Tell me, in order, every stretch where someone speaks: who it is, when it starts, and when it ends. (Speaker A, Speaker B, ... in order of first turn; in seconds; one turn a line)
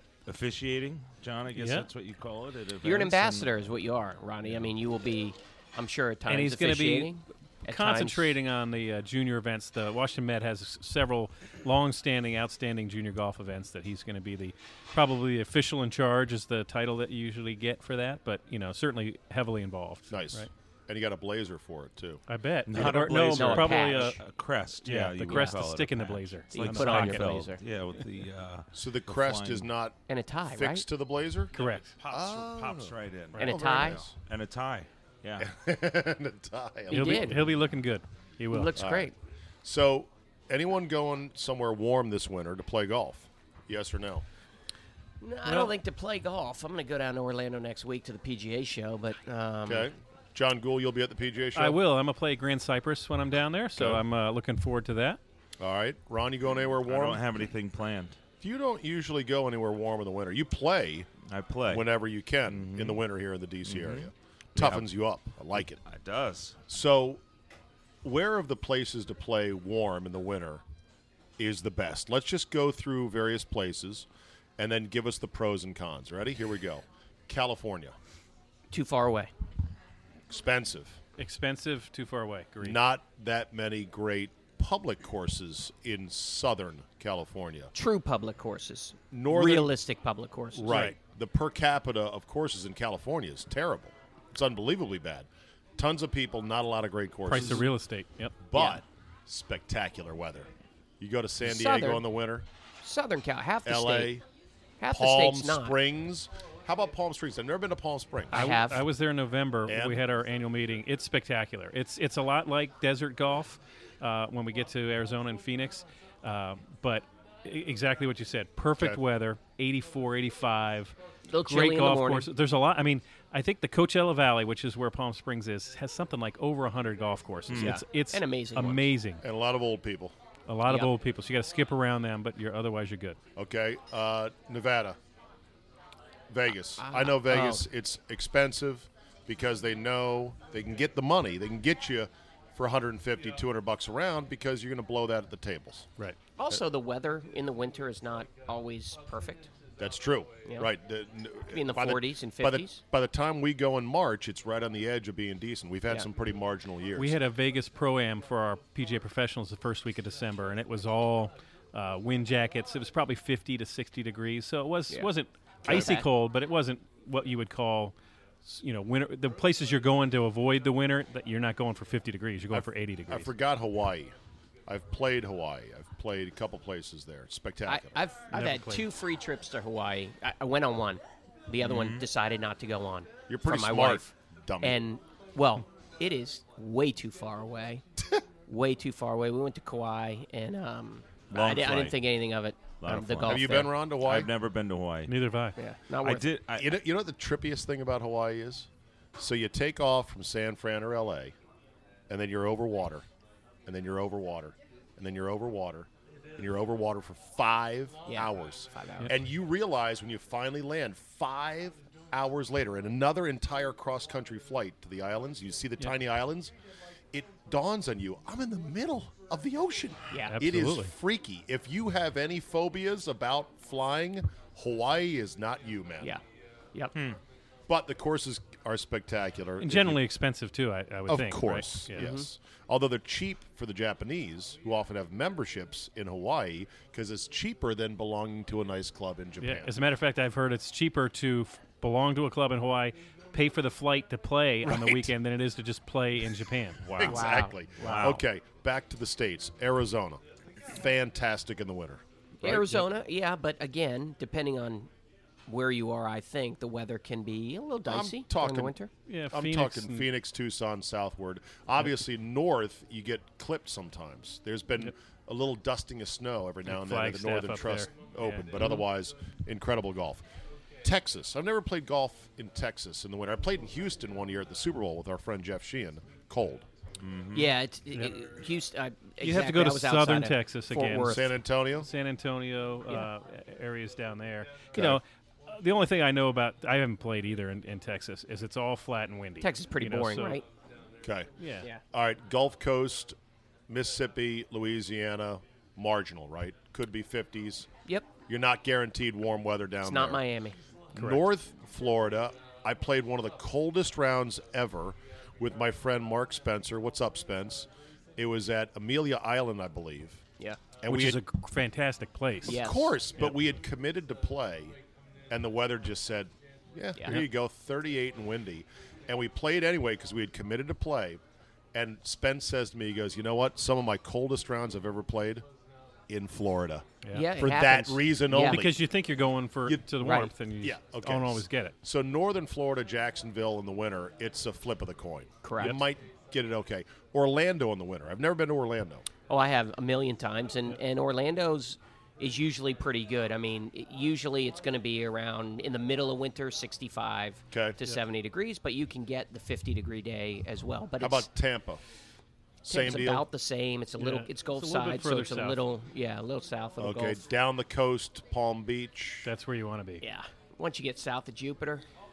Speaker A: 0.2-3.5
Speaker B: 1.5-1.9
Speaker C: 2.8-8.4
Speaker B: 6.3-20.5
Speaker D: 20.1-22.2
Speaker B: 22.3-24.2
Speaker A: 22.7-29.7
Speaker C: 22.7-24.2
Speaker B: 24.8-27.4
Speaker C: 25.3-25.5
Speaker C: 26.5-27.6
Speaker D: 28.7-30.0
Speaker C: 30.1-30.8
Speaker D: 30.5-31.5
Speaker B: 31.5-31.9
Speaker A: 31.5-35.5
Speaker D: 32.1-34.1
Speaker C: 33.4-34.0
Speaker D: 35.4-37.4
Speaker C: 36.9-37.4
Speaker B: 36.9-38.7
Speaker C: 38.5-39.1
Speaker D: 38.8-39.1
Speaker D: 39.6-44.2
Speaker C: 45.2-49.9
Speaker D: 49.7-51.8
Speaker B: 51.5-55.2
Speaker D: 53.8-54.0
Speaker D: 55.6-57.2
Speaker A: 56.8-58.2
Speaker D: 58.4-61.1
Speaker A: 61.2-61.9
Speaker D: 61.7-65.8
Speaker A: 62.5-63.0
Speaker A: 63.6-64.9
Speaker A: 65.5-66.7
Speaker D: 66.7-67.2
Speaker D: 68.0-70.6
Speaker D: 71.4-74.0
Speaker D: 74.6-78.0
Speaker C: 78.7-79.3
Speaker D: 80.3-81.0
Speaker B: 81.2-82.8
Speaker D: 82.6-87.7
Speaker C: 87.7-90.9
Speaker D: 89.1-89.7
Speaker D: 90.5-97.7
Speaker B: 90.7-91.0
Speaker B: 97.2-98.4
Speaker D: 98.4-100.5
Speaker C: 98.5-98.8
Speaker D: 101.0-102.5
Speaker C: 101.4-102.0
Speaker C: 102.8-104.1
Speaker D: 103.7-104.2
Speaker C: 104.8-105.8
Speaker D: 104.9-108.3
Speaker C: 108.3-108.8
Speaker B: 108.3-129.2
Speaker D: 109.7-110.0
Speaker C: 121.3-122.3
Speaker A: 127.5-127.8
Speaker C: 127.6-128.8
Speaker D: 129.2-130.1
Speaker B: 130.5-133.2
Speaker D: 133.3-135.0
Speaker D: 136.3-145.9
Speaker C: 136.8-137.7
Speaker C: 146.4-149.5
Speaker D: 149.8-157.2
Speaker C: 150.4-150.7
Speaker C: 151.5-152.8
Speaker B: 157.0-167.9
Speaker D: 165.7-165.9
Speaker C: 165.7-166.1
Speaker B: 168.4-173.3
Speaker D: 172.5-174.1
Speaker D: 174.7-178.0
Speaker C: 177.7-187.8
Speaker B: 178.3-178.8
Speaker A: 181.6-182.1
Speaker D: 183.3-184.8
Speaker C: 188.5-193.7
Speaker A: 191.3-192.0
Speaker A: 192.8-195.2
Speaker D: 193.2-194.3
Speaker B: 195.1-195.6
Speaker C: 195.6-196.3
Speaker A: 196.0-196.8
Speaker D: 196.6-201.3
Speaker D: 202.1-203.0
Speaker D: 203.7-216.5
Speaker C: 208.1-209.1
Speaker D: 217.1-226.2
Speaker C: 220.1-220.4
Speaker B: 220.3-220.9
Speaker D: 227.7-230.0
Speaker B: 229.6-232.1
Speaker D: 231.1-239.7
Speaker C: 231.9-232.3
Speaker B: 239.4-248.2
Speaker D: 244.6-245.1
Speaker D: 246.9-252.8
Speaker C: 247.0-248.0
Speaker A: 247.8-248.2
Speaker C: 252.4-254.9
Speaker B: 252.5-252.8
Speaker C: 255.5-258.9
Speaker D: 257.9-258.7
Speaker B: 259.1-260.1
Speaker D: 259.3-270.2
Speaker B: 266.7-268.8
Speaker D: 270.8-276.6
Speaker A: 277.0-277.5
Speaker C: 277.3-281.3
Speaker B: 279.2-290.4
Speaker D: 281.0-281.9
Speaker D: 284.7-285.0
Speaker C: 289.4-290.4
Speaker D: 291.0-291.3
Speaker B: 291.4-291.7
Speaker D: 291.9-293.1
Speaker D: 293.7-297.7
Speaker D: 298.3-300.2
Speaker C: 299.8-300.6
Speaker D: 300.9-310.2
Speaker B: 300.9-301.2
Speaker D: 310.8-311.2
Speaker B: 310.9-312.6
Speaker D: 312.4-314.7
Speaker C: 312.4-313.0
Speaker D: 315.3-321.2
Speaker C: 317.0-317.2
Speaker D: 321.7-325.4
Speaker D: 326.1-328.8
Speaker B: 327.0-327.3
Speaker C: 327.1-328.6
Speaker B: 328.3-331.7
Speaker D: 329.6-339.0
Speaker C: 330.0-330.3
Speaker C: 335.4-335.8
Speaker C: 339.3-351.3
Speaker D: 347.5-347.8
Speaker D: 351.0-351.8
Speaker D: 352.6-353.3
Speaker C: 352.7-357.2
Speaker B: 354.0-355.6
Speaker D: 356.8-359.3
Speaker B: 359.2-360.0
Speaker C: 360.0-361.9